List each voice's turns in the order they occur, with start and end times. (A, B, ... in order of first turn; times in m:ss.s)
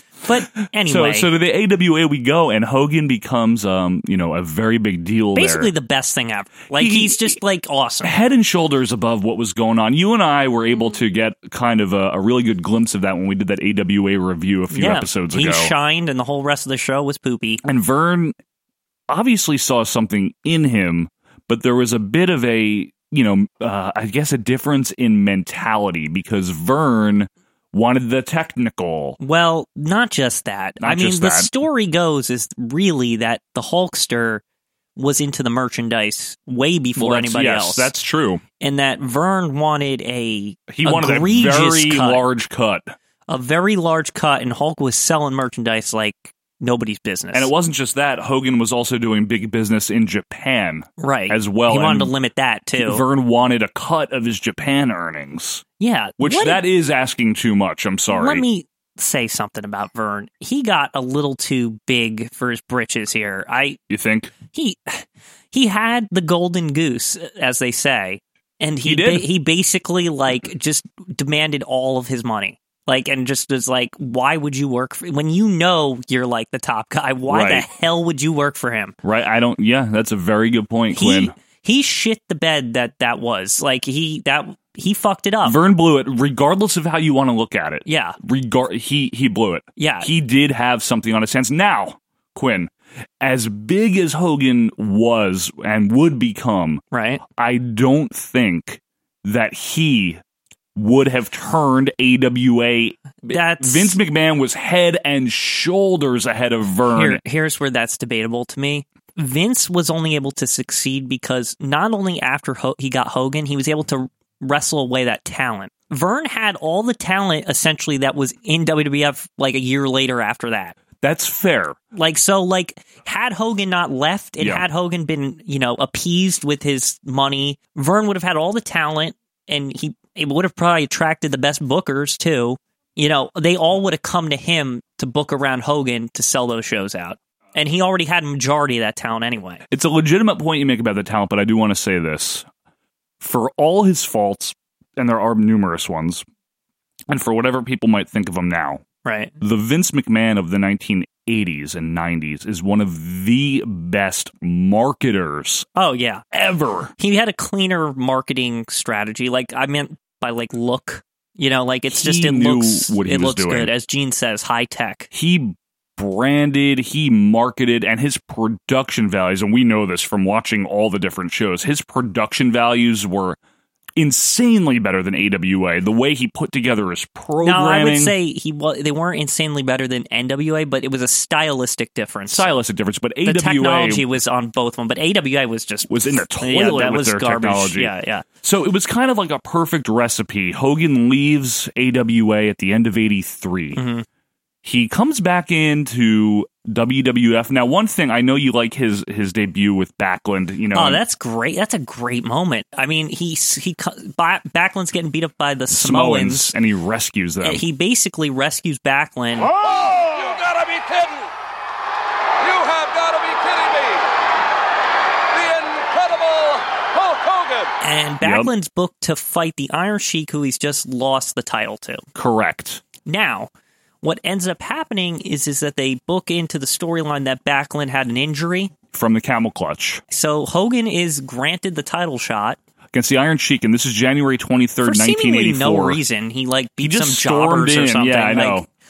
0:00.2-0:01.3 A
0:00.8-0:05.7 B
0:05.4-0:08.1 A
0:06.7-0:07.4 B
0:08.0-0:15.7 B
0:14.7-0:17.6 A
0:17.6-0:18.4 B
0:19.1-0:29.2 B
0:29.2-0:34.4 A
0:30.8-0:31.5 B
0:35.0-0:37.9 A
0:37.0-0:38.4 B
0:38.6-0:42.2 A
0:40.7-0:42.9 B
0:43.3-0:47.5 A
0:47.3-0:52.1 B
0:51.0-0:53.0 A
0:52.8-0:55.6 B
0:55.8-0:56.6 A
0:56.2-0:58.4 B
0:58.1-1:03.8 A
1:03.9-1:04.3 B
1:04.5-1:19.0 A
1:08.8-1:09.3 B
1:17.3-1:17.7 B
1:19.0-1:21.3 B
1:21.0-1:25.6 A
1:25.4-1:40.2 B
1:27.9-1:28.2 A
1:29.8-1:30.1 A
1:36.9-1:37.2 A
1:40.8-1:47.2 B
1:43.3-1:44.0 A
1:46.9-2:00.8 A
2:01.0-2:01.8 B
2:01.9-2:19.6 A
2:04.4-2:04.6 B
2:19.7-2:22.5 B
2:23.2-2:26.2 B
2:27.1-2:28.8 B
2:29.0-2:29.3 A
2:29.4-2:35.7 B
2:35.8-2:36.2 A
2:36.3-2:36.9 B
2:37.0-2:45.1 A
2:41.9-2:43.7 B
2:45.1-2:53.4 B
2:54.0-2:58.1 B
2:57.4-3:02.5 A
3:02.3-3:04.1 B
3:03.2-3:08.2 A
3:05.9-3:13.8 B
3:13.8-3:14.0 A
3:14.6-3:21.0 B
3:20.7-3:26.5 A
3:25.7-3:27.6 B
3:27.4-3:29.5 A
3:29.5-3:31.3 C
3:32.4-3:34.0 C
3:35.3-3:37.7 C
3:37.8-3:42.0 A
3:38.2-3:38.5 B
3:42.2-3:42.8 B
3:43.0-3:43.5 A
3:44.0-3:48.7 A
3:48.9-3:50.0 B
3:50.1-3:52.6 A
3:52.9-3:56.0 B
3:54.8-3:58.6 A
3:56.8-3:58.7 B